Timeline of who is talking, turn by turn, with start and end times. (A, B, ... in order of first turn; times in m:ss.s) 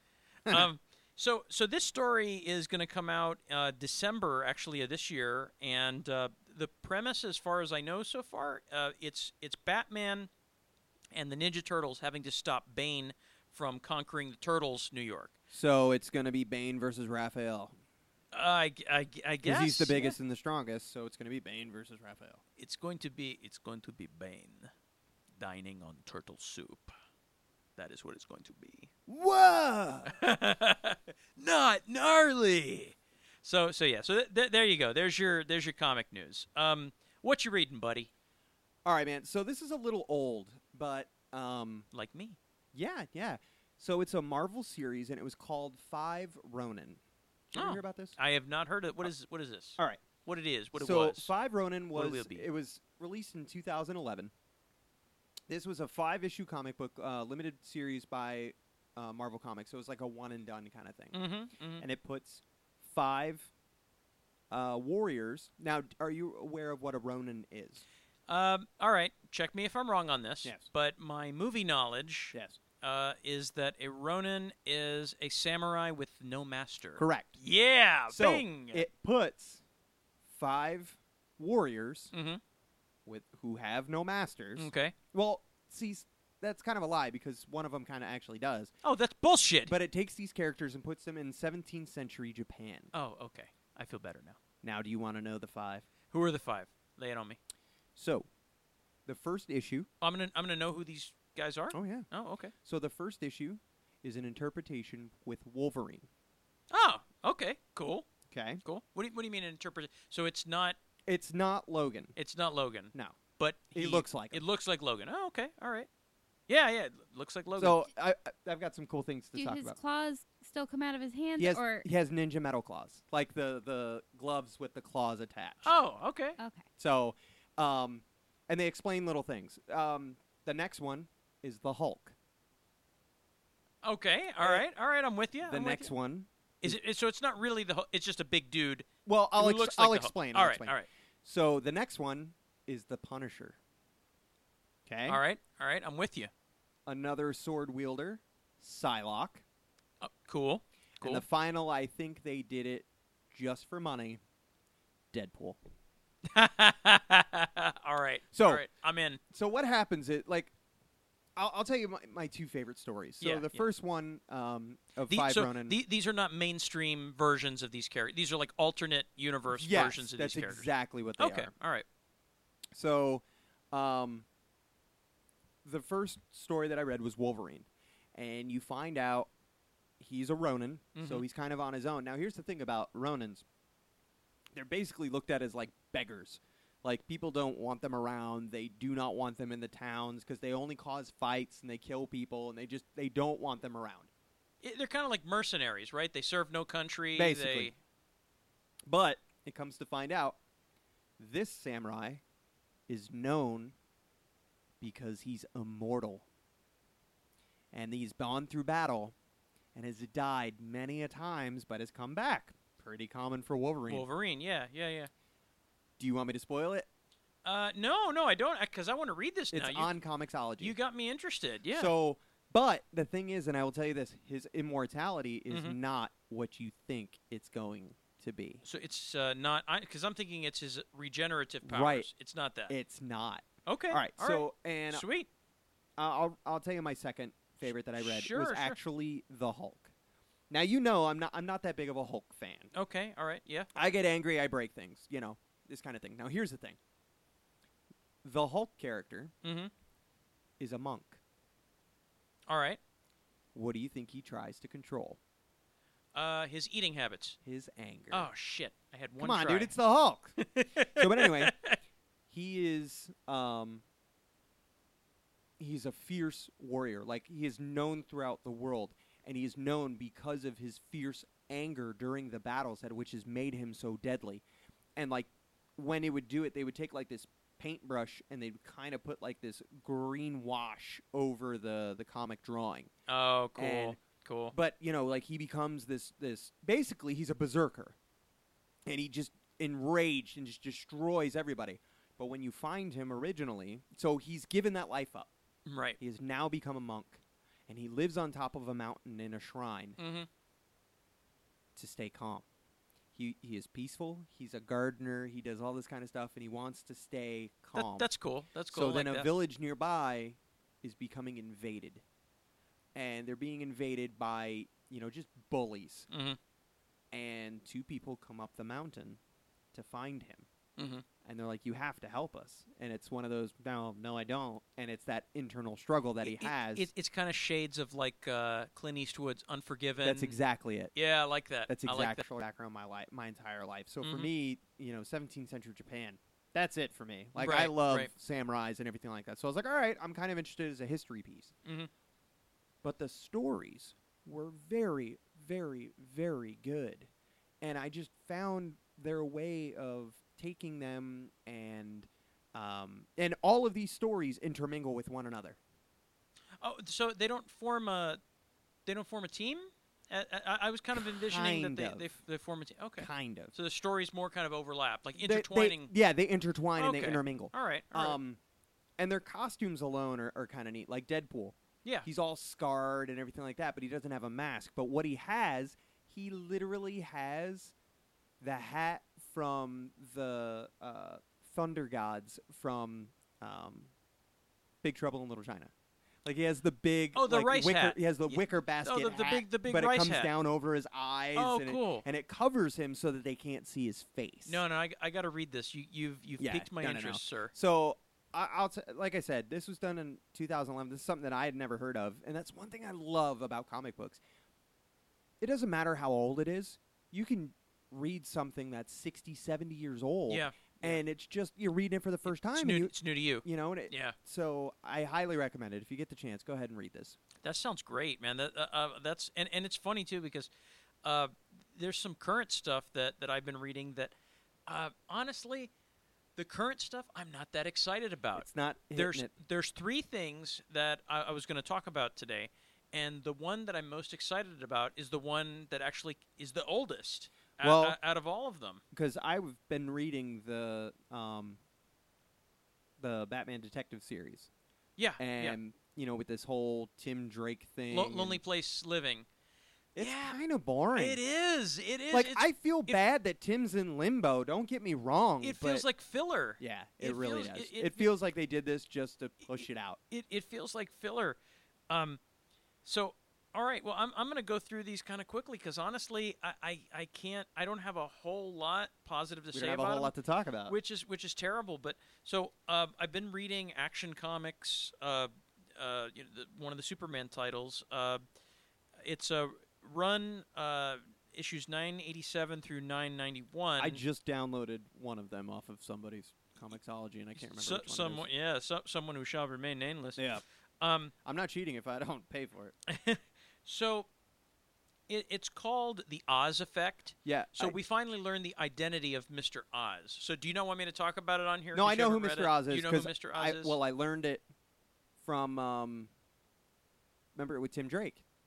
0:00.5-0:10.3 A
0:11.1-0:15.3 A
0:15.5-0:17.8 B
0:18.3-0:20.2 A
0:19.4-0:22.4 B
0:22.6-0:24.7 A
0:25.4-0:26.9 A
0:27.8-0:28.9 A
0:29.1-0:30.2 B
0:30.0-0:38.1 A
0:38.8-0:41.9 B
0:41.9-0:42.4 A
0:42.7-0:48.2 B
0:47.5-0:51.3 A
0:50.8-0:54.3 B
0:51.9-0:52.5 A
0:55.5-1:01.2 B
1:01.1-1:01.8 A
1:01.8-1:03.5 B
1:04.5-1:07.8 B
1:08.3-1:18.9 A
1:12.3-1:12.6 B
1:17.0-1:17.4 B
1:18.1-1:19.6 B
1:20.3-1:22.1 B
1:22.1-1:22.4 A
1:23.0-1:28.7 B
1:24.6-1:24.9 A
1:28.8-1:29.8 A
1:29.6-1:32.9 B
1:32.9-1:34.4 A
1:34.6-1:35.9 B
1:36.1-1:37.4 A
1:38.0-1:38.3 B
1:39.0-1:39.9 B
1:40.0-1:42.5 A
1:41.7-1:46.1 B
1:46.7-1:48.1 A
1:48.3-1:48.6 B
1:48.6-1:50.8 A
1:51.0-1:52.1 B
1:52.2-1:55.9 A
1:53.7-1:54.4 B
1:56.5-1:57.8 A
1:57.6-1:59.8 B
1:59.3-2:01.8 C
2:01.4-2:05.7 B
2:05.6-2:06.4 A
2:06.4-2:06.6 C
2:06.8-2:12.1 B
2:13.8-2:15.9 A
2:15.4-2:16.8 B
2:16.6-2:20.9 A
2:19.0-2:23.6 B
2:24.8-2:25.2 B
2:25.1-2:26.3 A
2:26.8-2:29.4 B
2:30.0-2:31.2 A
2:31.0-2:34.2 B
2:35.1-2:35.6 B
2:36.2-2:39.2 A
2:38.3-2:38.6 B
2:39.3-2:40.5 B
2:41.4-2:45.8 B
2:43.2-2:43.7 A
2:45.1-2:51.8 A
2:49.5-2:51.5 B
2:52.7-2:54.2 B
2:55.6-2:59.3 B
3:00.0-3:03.4 B
3:01.0-3:01.2 A
3:04.5-3:14.1 B
3:14.6-3:17.8 A
3:17.1-3:17.7 B
3:18.8-3:20.4 B
3:21.2-3:22.2 B
3:22.9-3:23.7 B
3:24.8-3:26.2 B
3:27.7-3:29.1 B
3:29.7-3:34.0 B
3:33.9-3:35.1 A
3:36.0-3:36.9 B
3:37.4-3:39.9 A
3:39.5-3:40.8 B
3:40.6-3:41.9 A
3:41.7-3:48.6 B
3:45.5-3:45.8 A
3:48.6-3:52.7 A
3:51.6-3:52.1 B
3:52.7-3:55.0 B
3:53.6-3:55.3 A
3:56.0-3:59.9 B
3:58.0-3:58.8 A
4:00.5-4:02.7 B
4:02.7-4:03.7 A
4:03.7-4:06.8 B
4:08.2-4:09.3 B
4:09.4-4:09.7 A
4:10.6-4:11.2 B
4:12.5-4:12.8 A
4:13.5-4:15.2 B
4:16.1-4:17.4 A
4:17.4-4:18.3 B
4:18.1-4:19.7 A
4:19.2-4:20.4 B
4:20.4-4:21.8 A
4:20.9-4:21.6 B
4:22.3-4:23.8 B
4:25.6-4:34.4 B
4:35.0-4:42.9 B
4:43.1-4:44.5 A
4:43.6-4:44.0 B
4:44.5-4:48.0 B
4:48.8-4:55.3 B
4:55.6-4:56.0 A
4:56.0-5:00.0 B
5:00.0-5:00.3 A
5:01.8-5:02.4 B
5:03.1-5:08.1 B
5:07.7-5:09.3 A
5:08.7-5:12.0 B
5:12.9-5:16.1 B
5:16.1-5:16.4 A
5:17.1-5:19.2 B
5:19.7-5:20.5 B
5:20.8-5:21.0 A
5:21.2-5:26.9 B
5:26.2-5:30.4 A
5:30.0-5:30.9 B
5:30.9-5:32.3 A
5:31.7-5:41.5 B
5:34.0-5:34.3 A
5:37.4-5:38.1 A
5:41.6-5:41.9 A
5:42.8-5:47.1 B
5:47.6-5:55.6 B
5:56.6-5:58.2 A
5:58.8-6:05.9 A
6:01.0-6:02.1 B
6:03.0-6:03.5 B
6:05.2-6:08.4 B
6:06.8-6:08.2 A
6:09.0-6:17.7 B
6:18.4-6:23.9 B
6:24.8-6:25.7 B
6:26.2-6:34.6 B
6:27.1-6:30.3 A
6:31.3-6:32.0 A
6:34.4-6:37.5 A
6:36.4-6:44.2 B
6:45.4-6:57.2 B
6:50.3-6:51.0 A
6:52.2-6:54.2 A
6:57.4-7:00.5 A
7:01.0-7:04.1 A
7:04.7-7:05.7 A
7:06.4-7:18.8 A
7:08.3-7:09.3 B
7:17.6-7:18.0 B
7:18.9-7:21.6 B
7:23.0-7:24.5 B
7:25.0-7:25.6 A
7:25.2-7:28.4 B
7:27.9-7:29.2 A
7:29.9-7:31.2 B
7:30.0-7:30.4 A
7:30.9-7:33.0 A
7:32.1-7:35.8 B
7:35.4-7:38.1 A
7:36.6-7:40.0 B
7:40.1-7:41.4 A
7:41.9-7:42.2 A
7:42.8-7:50.1 A
7:49.5-7:50.7 B
7:50.7-7:58.2 A
7:59.0-8:04.0 A
8:03.8-8:08.2 B
8:07.4-8:11.1 A
8:10.2-8:10.4 B
8:11.2-8:12.7 B
8:12.9-8:14.1 A
8:15.1-8:23.8 A
8:17.2-8:17.8 B
8:21.7-8:24.4 B
8:25.2-8:26.1 B
8:27.3-8:28.2 B